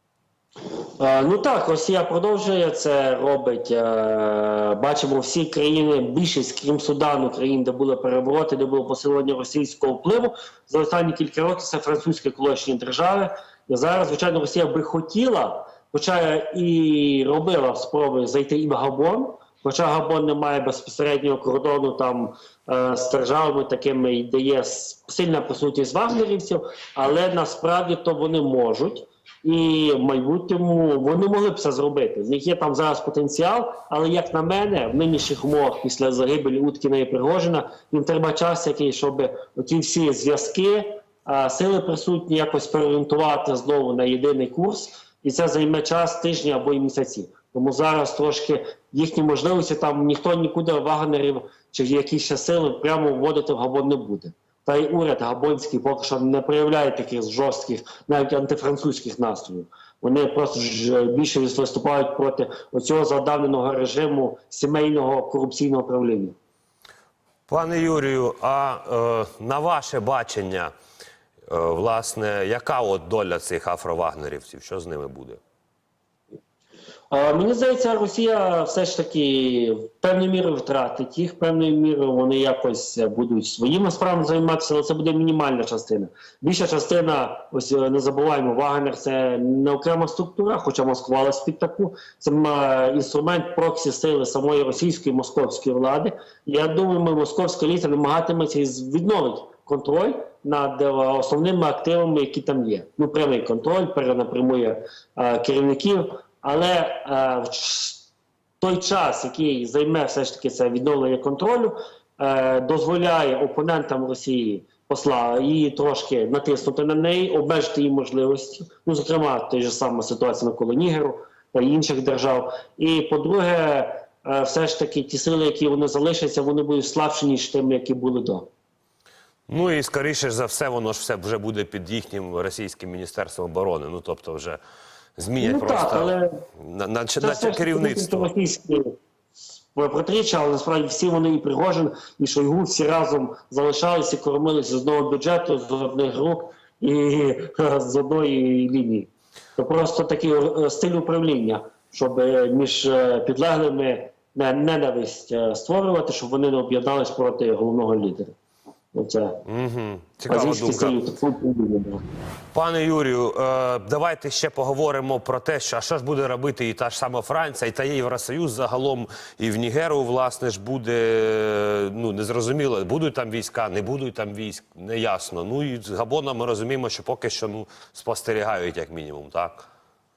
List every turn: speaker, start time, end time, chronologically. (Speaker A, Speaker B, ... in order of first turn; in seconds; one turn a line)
Speaker A: 1.0-66.3
Speaker B: 67.5-70.7
Speaker B: 71.5-75.4
Speaker A: 77.1-108.1
Speaker A: 108.6-128.5
Speaker B: 129.5-134.6
Speaker B: 135.2-138.3
Speaker A: 135.4-136.4
Speaker A: 137.2-138.9
Speaker A: 139.7-158.3
Speaker A: 158.9-159.4
Speaker B: 159.5-161.0
Speaker A: 160.3-162.0
Speaker B: 162.5-179.7